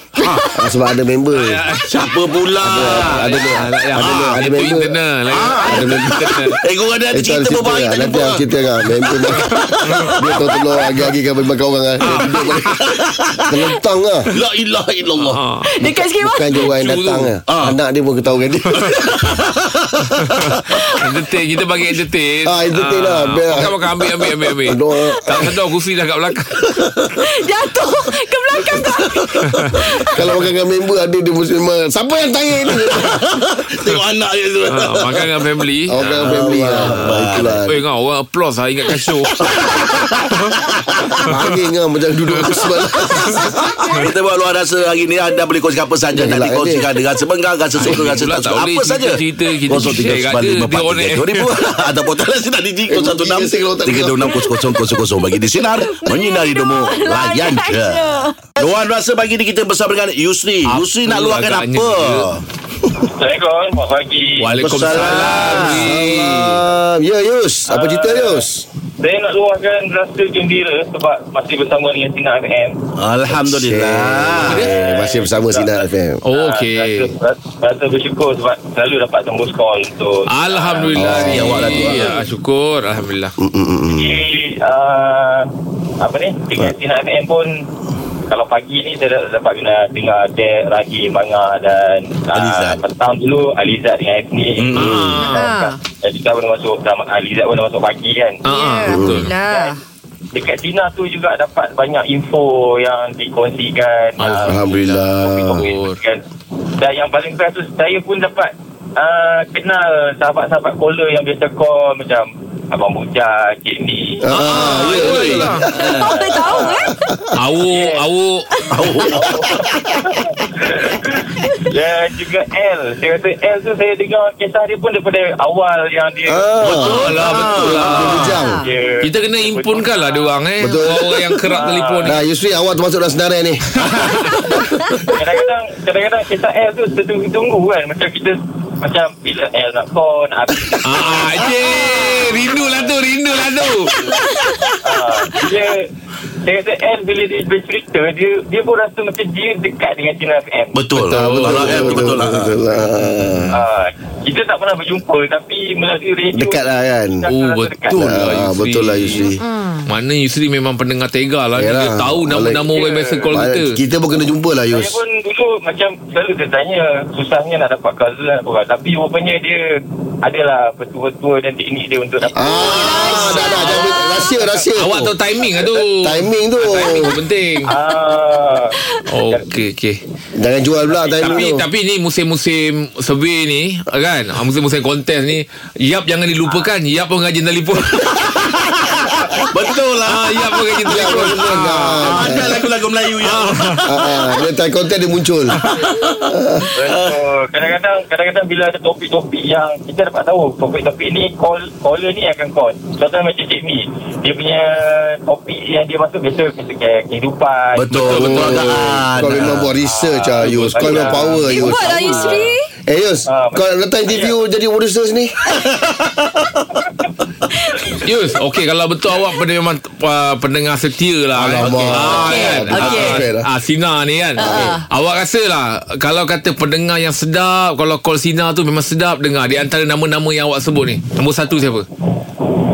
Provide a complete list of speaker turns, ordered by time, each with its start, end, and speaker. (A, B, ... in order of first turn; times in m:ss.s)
0:00.2-0:00.5 A
0:00.2-0:00.5 B
0:00.5-0:01.6 C
0:01.3-0:01.9 D
0:01.8-0:04.4 A
0:02.6-0:06.5 C
0:02.7-0:06.6 D
0:05.3-0:10.3 A
0:07.1-0:12.8 C
0:09.5-0:10.2 D
0:12.0-0:12.8 D
0:12.1-0:13.5 A
0:13.5-0:14.3 C
0:14.3-0:15.4 A
0:15.2-0:15.6 D
0:15.7-0:16.6 B
0:15.8-0:19.0 C
0:16.5-0:17.3 D
0:17.5-0:17.7 A
0:18.7-0:20.8 A
0:20.5-0:26.7 D
0:22.4-0:25.6 C
0:26.7-0:27.2 A
0:27.2-0:30.3 B
0:28.9-0:29.8 A
0:29.5-0:29.8 D
0:30.1-0:33.2 C
0:32.8-0:35.2 A
0:34.7-0:39.4 D
0:35.9-0:37.8 C
0:36.2-0:37.5 A
0:39.4-0:41.3 A
0:41.2-0:43.6 C
0:42.4-1:02.4 A
0:46.1-0:46.8 C
0:47.8-0:51.5 D
0:52.9-0:54.7 C
0:55.1-0:58.5 B
1:00.6-1:02.3 D
1:03.1-1:05.4 E
1:04.4-1:06.6 D
1:04.6-1:05.8 A
1:05.5-1:08.6 C
1:07.7-1:08.4 E
1:09.0-1:12.8 E
1:13.0-1:14.6 A
1:13.3-1:16.2 C
1:14.4-1:14.7 D
1:14.6-1:21.0 E
1:16.2-1:17.1 D
1:20.3-1:23.3 D
1:21.0-1:22.0 C
1:21.0-1:22.1 A
1:23.4-1:24.2 C
1:23.9-1:25.5 E
1:26.0-1:27.5 E
1:28.3-1:38.4 E
1:32.3-1:32.8 A
1:34.6-1:35.1 A
1:34.7-1:35.5 D
1:35.2-1:35.8 B
1:38.4-1:39.3 D
1:38.5-1:39.8 B
1:38.9-1:39.3 C
1:39.4-1:39.7 E
1:40.3-1:46.2 E
1:44.2-1:44.7 D
1:44.4-1:45.7 C
1:45.6-1:46.0 D
1:46.8-1:56.8 E
1:54.2-1:55.9 C
1:54.3-1:55.7 D
1:54.9-1:56.1 A
1:55.9-1:56.9 B
1:56.5-1:57.3 C
1:57.4-1:58.5 D
1:57.6-1:58.0 E
1:58.7-1:59.3 A
1:59.0-2:10.3 E
2:06.3-2:08.6 C
2:06.8-2:08.4 D
2:06.8-2:08.2 A
2:08.3-2:08.7 B
2:09.0-2:12.2 D
2:10.6-2:11.4 C
2:11.4-2:12.1 E
2:12.0-2:13.7 C
2:13.8-2:14.6 D
2:15.1-2:22.9 E
2:20.8-2:24.0 D
2:21.6-2:22.0 B
2:23.9-2:24.8 B
2:24.8-2:25.9 E
2:26.4-2:30.8 E
2:30.7-2:32.6 A
2:31.0-2:32.1 D
2:31.1-2:33.5 C
2:33.5-2:36.6 E
2:36.3-2:37.2 C
2:37.2-2:38.0 E
2:37.3-2:39.3 D
2:37.9-2:39.4 C
2:39.4-2:39.9 B
2:39.9-2:43.7 D
2:41.6-2:42.7 C
2:42.7-2:43.3 E
2:43.3-2:45.0 C
2:44.7-2:49.6 E
2:50.2-2:53.0 E
2:52.4-2:55.1 C
2:52.6-2:54.3 B
2:52.8-2:54.2 D
2:54.8-2:57.7 D
2:56.0-2:57.2 C
2:57.7-2:58.8 E
2:59.1-3:00.0 D
2:59.3-2:59.5 E
3:00.4-3:01.6 C
3:01.2-3:08.2 D
3:08.0-3:11.1 A
3:10.0-3:12.5 D
3:10.8-3:12.6 C
3:12.0-3:13.9 A
3:13.2-3:14.0 D
3:13.8-3:15.6 C
3:15.6-3:17.2 A
3:16.3-3:16.7 C
3:16.8-3:28.0 E
3:27.8-3:29.7 A
3:27.9-3:28.7 D
3:28.0-3:35.3 C
3:29.8-3:32.5 E
3:30.4-3:31.6 D
3:31.4-3:32.7 B
3:33.3-3:34.4 E
3:35.5-3:36.6 A
3:37.6-3:37.9 B
3:38.0-3:51.8 D
3:41.3-3:43.5 C
3:41.5-3:43.2 A
3:42.2-3:43.2 B
3:44.4-3:44.8 C
3:44.4-3:44.8 B